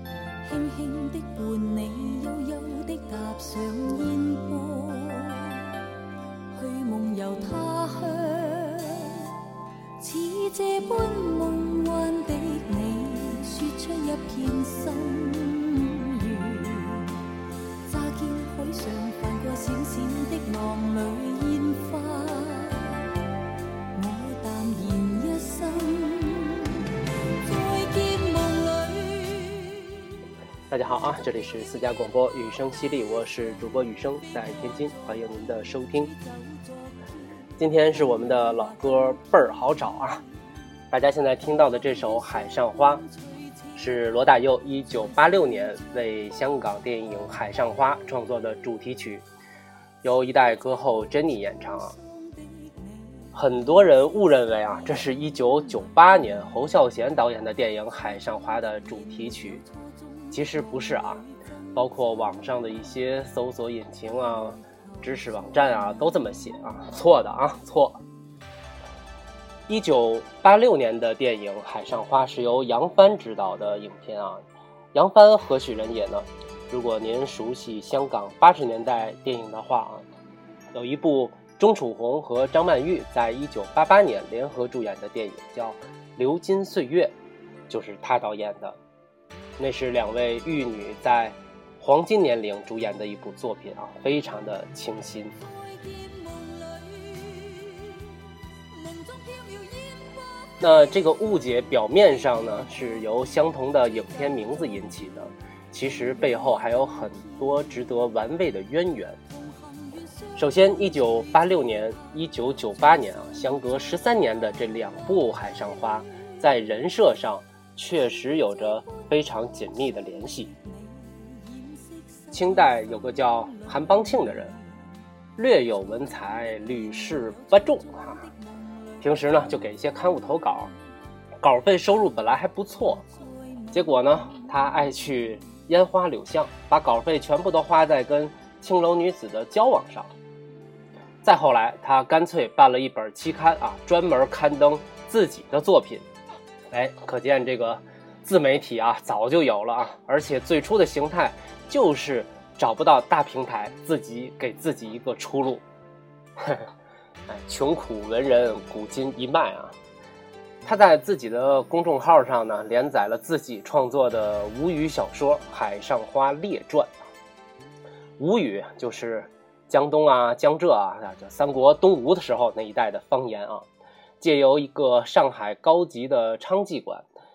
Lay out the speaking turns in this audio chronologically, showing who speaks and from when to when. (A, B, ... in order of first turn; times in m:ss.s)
0:00.4-0:05.8 A
0:06.5-0:09.4 A
0:10.0-0:17.3 A
0:17.8-0:23.2 A
0:23.9-0:30.2 A
0:30.7-0:36.1 B
0:37.6-0:40.2 B
0:40.9-0:43.1 B
0:43.7-0:49.2 B
0:50.0-0:52.0 B
0:53.3-0:59.6 B
1:00.3-1:08.0 B
1:09.7-1:20.0 B
1:20.7-1:27.1 B
1:27.7-1:28.8 B
1:29.6-1:35.4 B
1:35.7-1:40.2 A
1:40.6-1:49.2 B
1:49.5-1:49.9 A
1:50.4-2:00.5 B
2:01.0-2:01.8 A
2:02.3-2:04.6 B
2:05.4-2:08.3 B
2:09.0-2:10.7 B
2:11.4-2:13.1 B
2:13.7-2:20.1 B
2:21.2-2:26.1 B
2:26.7-2:35.6 B
2:36.4-2:36.7 B
2:37.3-2:39.7 B
2:40.6-2:47.1 B
2:48.2-2:53.7 B
2:54.2-2:57.0 B